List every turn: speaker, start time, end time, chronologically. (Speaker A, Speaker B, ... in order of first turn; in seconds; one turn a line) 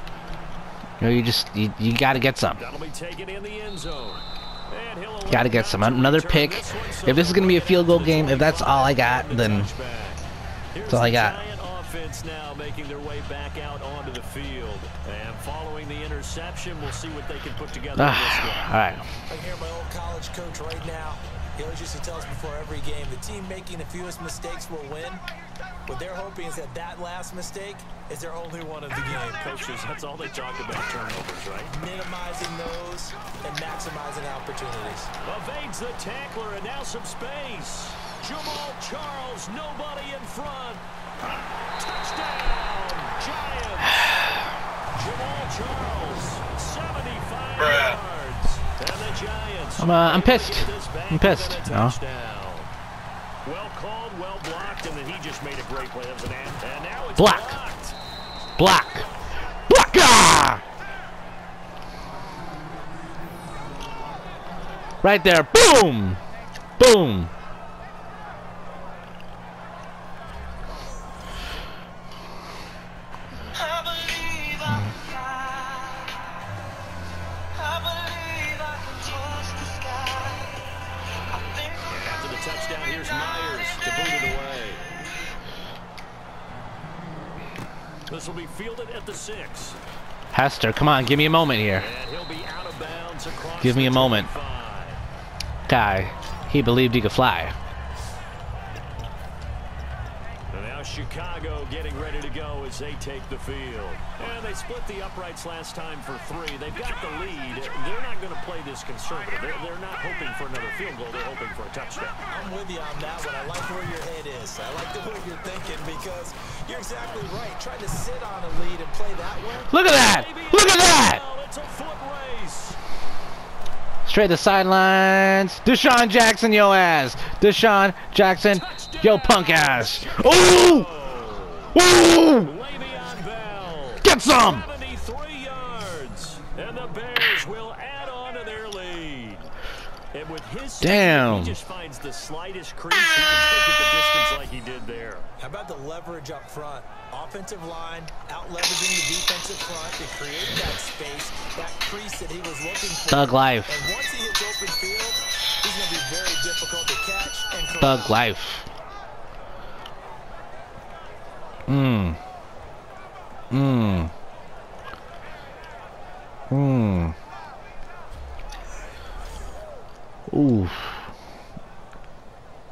Speaker A: 1.0-2.6
Speaker B: 2.5-18.7
Speaker A: 5.3-9.7
Speaker A: 10.8-11.4
Speaker A: 18.0-19.0
Speaker C: 19.3-25.2
Speaker C: 25.9-29.4
Speaker B: 29.2-31.7
Speaker C: 31.7-35.1
Speaker B: 35.2-40.8
Speaker B: 41.8-44.3
Speaker B: 44.9-52.7
Speaker A: 49.8-52.0
Speaker B: 53.4-58.0
Speaker A: 57.2-57.6
Speaker A: 58.6-59.1
Speaker A: 59.7-60.6
Speaker A: 65.0-66.2
Speaker A: 66.8-67.3
Speaker C: 73.6-76.0
Speaker C: 77.6-80.5
Speaker C: 81.3-81.8
Speaker B: 81.9-84.8
Speaker B: 88.1-89.8
Speaker A: 90.3-91.9
Speaker B: 91.8-95.0
Speaker A: 93.6-94.3
Speaker A: 95.7-97.5
Speaker B: 100.5-112.2
Speaker C: 112.3-119.7
Speaker A: 119.7-121.2
Speaker B: 119.8-122.8
Speaker A: 124.0-130.9
Speaker B: 128.4-131.8
Speaker A: 131.7-132.5
Speaker B: 132.4-139.5
Speaker A: 134.0-134.7
Speaker B: 140.1-145.3
Speaker A: 140.8-141.6
Speaker C: 145.4-158.2
Speaker A: 153.1-153.8
Speaker A: 157.8-158.7
Speaker A: 161.7-162.2
Speaker A: 163.5-164.1
Speaker A: 166.5-167.2
Speaker A: 170.3-171.1